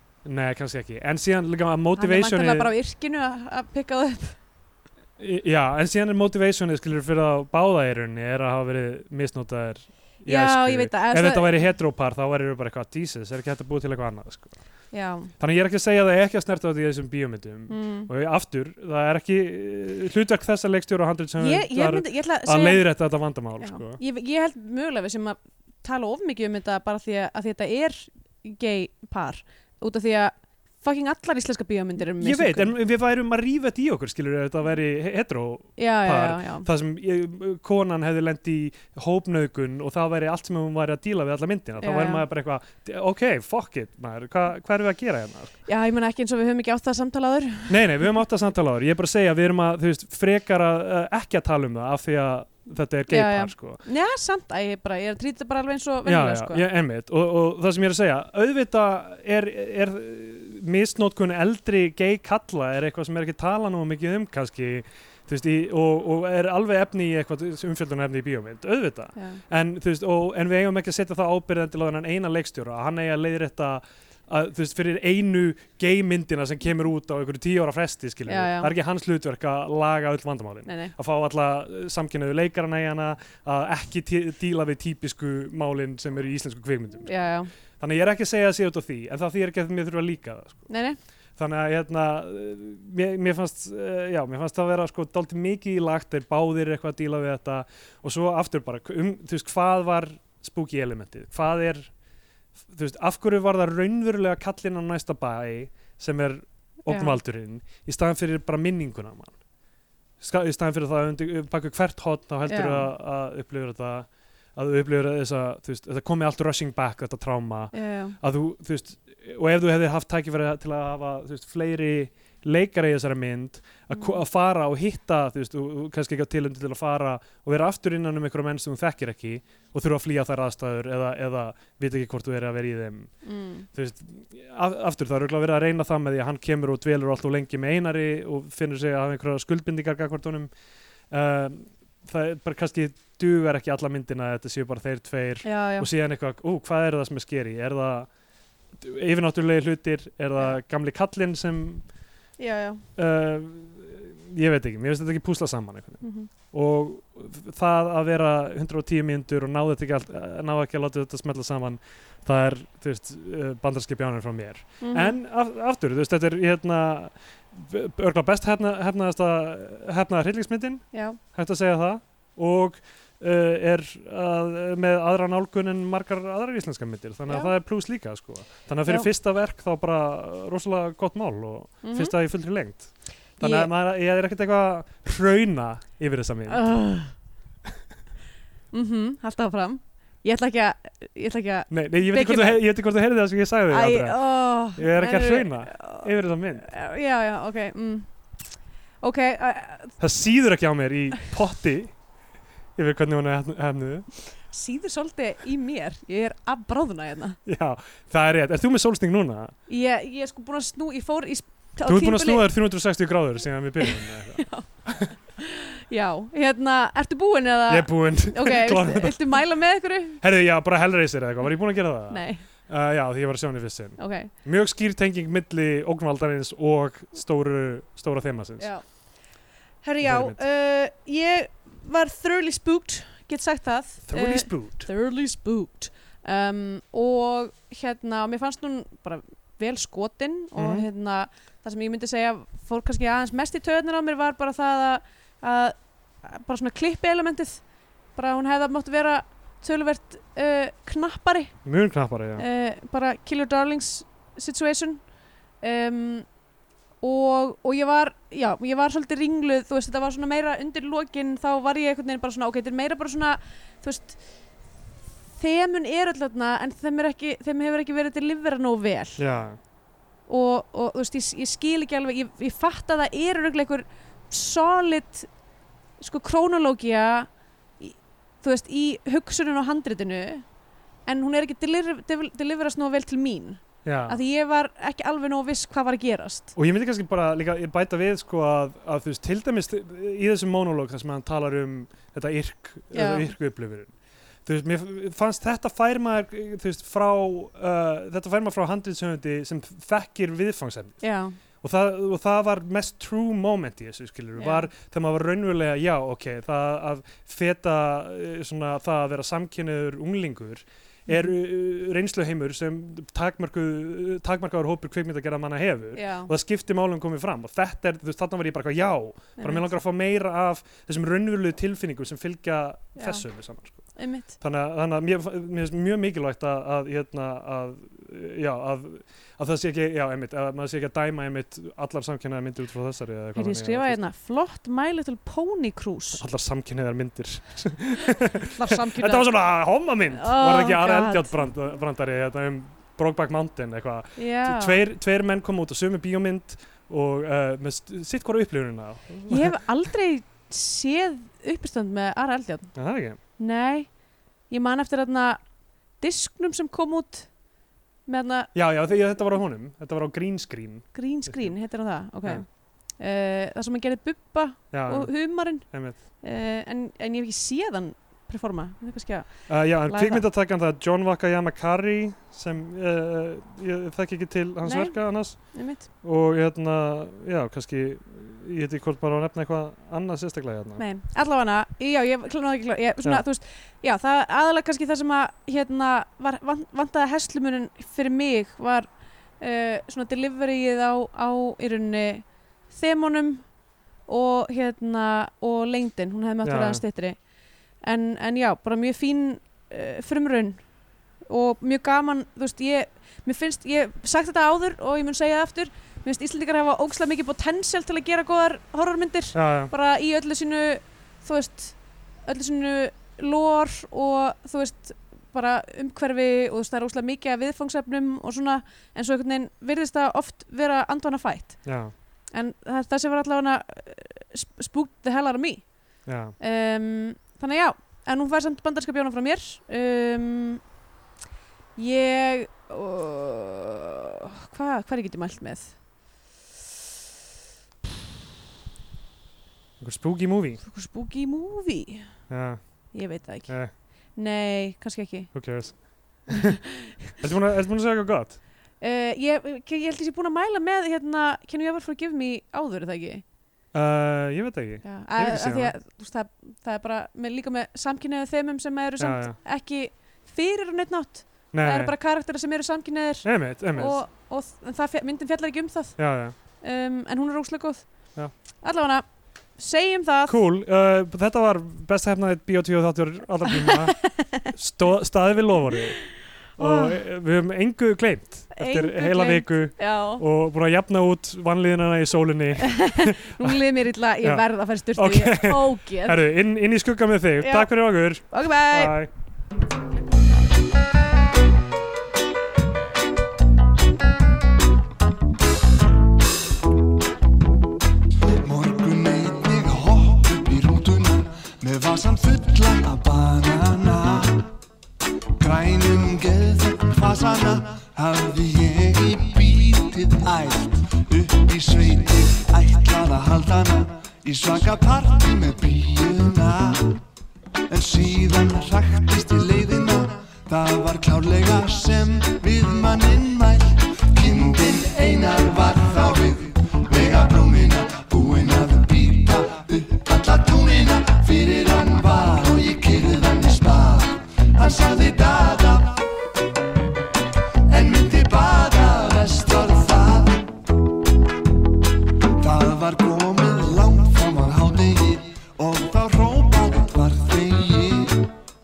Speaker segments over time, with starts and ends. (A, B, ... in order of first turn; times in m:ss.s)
0:00.2-0:02.7 A
0:02.0-0:04.4 B
0:05.2-0:14.6 A
0:10.2-0:11.6 B
0:14.9-0:15.3 B
0:15.4-0:24.0 A
0:17.7-0:18.1 B
0:21.4-0:22.8 B
0:23.6-0:32.7 B
0:32.2-0:45.5 A
0:35.8-0:36.7 B
0:41.8-0:42.2 B
0:45.6-0:47.8 B
0:47.7-0:53.8 A
0:53.1-0:56.6 B
0:56.0-1:27.1 A
1:09.2-1:09.4 B
1:18.2-1:18.7 B
1:20.6-1:20.9 B
1:27.0-1:27.5 B
1:27.8-1:30.7 A
1:30.7-1:31.0 B
1:31.4-1:41.9 A
1:42.7-1:49.4 A
1:46.9-1:47.2 B
1:50.2-2:13.1 A
1:52.4-1:52.9 B
1:57.7-1:58.2 B
2:03.9-2:04.2 B
2:13.2-2:13.7 B
2:13.7-2:20.5 A
2:21.1-2:28.1 A
2:25.4-2:25.9 B
2:28.8-2:31.8 A
2:32.4-2:32.8 B
2:33.0-3:06.6 A
2:36.0-2:36.3 B
2:44.8-2:45.2 B
2:50.9-2:51.2 B
3:01.8-3:02.1 B
3:03.4-3:03.7 B
3:06.5-3:07.1 B
3:08.7-3:12.6 B
3:11.7-3:16.7 A
3:13.7-3:18.1 B
3:19.0-3:20.0 B
3:20.0-3:21.9 A
3:22.8-3:24.1 A
3:24.5-3:27.4 B
3:27.4-3:29.5 A
3:29.7-3:32.5 B
3:31.8-3:35.1 A
3:33.8-3:34.7 B
3:35.4-3:40.2 B
3:37.7-3:39.4 A
3:40.2-3:48.7 A
3:42.1-3:42.4 B
3:44.0-3:44.3 B
3:48.6-3:48.8 B
3:49.8-4:07.6 B
3:50.0-3:50.4 A
3:54.0-3:54.9 A
4:00.6-4:00.8 A
4:08.1-4:11.5 B
4:11.6-4:12.4 A
4:12.4-4:15.0 B
4:15.6-4:16.3 B
4:17.0-4:24.2 B
4:25.4-4:29.2 B
4:29.2-4:29.6 A
4:30.3-4:35.3 B
4:36.0-4:40.4 B
4:41.0-4:46.5 B
4:43.8-4:44.2 A
4:46.5-4:53.9 A
4:52.9-4:53.3 B
4:54.4-5:01.0 A
5:01.0-5:01.4 B
5:01.6-5:23.9 A
5:04.4-5:04.7 B
5:16.0-5:16.3 B
5:19.4-5:19.7 B
5:23.0-5:23.2 B
5:24.0-5:24.3 B
5:24.4-5:34.0 A
5:33.3-5:36.2 B
5:36.2-5:49.6 A
5:38.5-5:39.3 B
5:40.1-5:41.5 B
5:44.2-5:44.8 B
5:49.3-5:52.7 B
5:52.7-5:53.2 A
5:53.4-5:53.9 B
5:54.5-5:55.4 B
5:56.0-5:57.3 B
5:58.0-5:58.5 B
5:58.5-6:01.6 A
6:00.9-6:10.2 B
6:04.7-6:06.0 A
6:09.5-6:20.8 A
6:14.6-6:15.9 B
6:20.8-6:33.5 B
6:34.0-6:37.2 B
6:36.4-6:36.8 A
6:37.8-6:40.6 B
6:41.3-7:01.7 B
6:49.3-6:49.7 A
7:01.6-7:01.9 A
7:02.3-7:05.8 B
7:06.0-7:06.4 A
7:06.4-7:10.6 B
7:11.8-7:15.8 B
7:19.8-7:20.6 A
7:20.6-7:22.2 B
7:22.3-7:22.9 A
7:22.9-7:25.8 B
7:23.4-7:23.7 A
7:25.3-7:26.5 A
7:27.2-7:28.4 A
7:28.8-7:33.2 B
7:33.7-7:35.7 A
7:34.8-7:46.0 B
7:39.0-7:39.4 A
7:41.5-7:41.9 A
7:43.2-7:44.0 A
7:46.0-7:46.3 A
7:46.5-7:47.9 B
7:48.6-7:50.4 B
7:50.2-7:56.0 A
7:53.6-7:54.5 B
7:56.6-7:57.0 B
7:56.6-8:03.6 A
7:58.5-8:00.2 B
8:02.6-8:06.2 B
8:04.2-8:09.1 A
8:07.4-8:07.7 B
8:08.3-8:09.0 B
8:18.4-8:24.5 C
8:25.4-8:37.0 C
8:37.7-8:56.0 C
8:57.7-9:00.6 C
9:02.4-9:08.3 C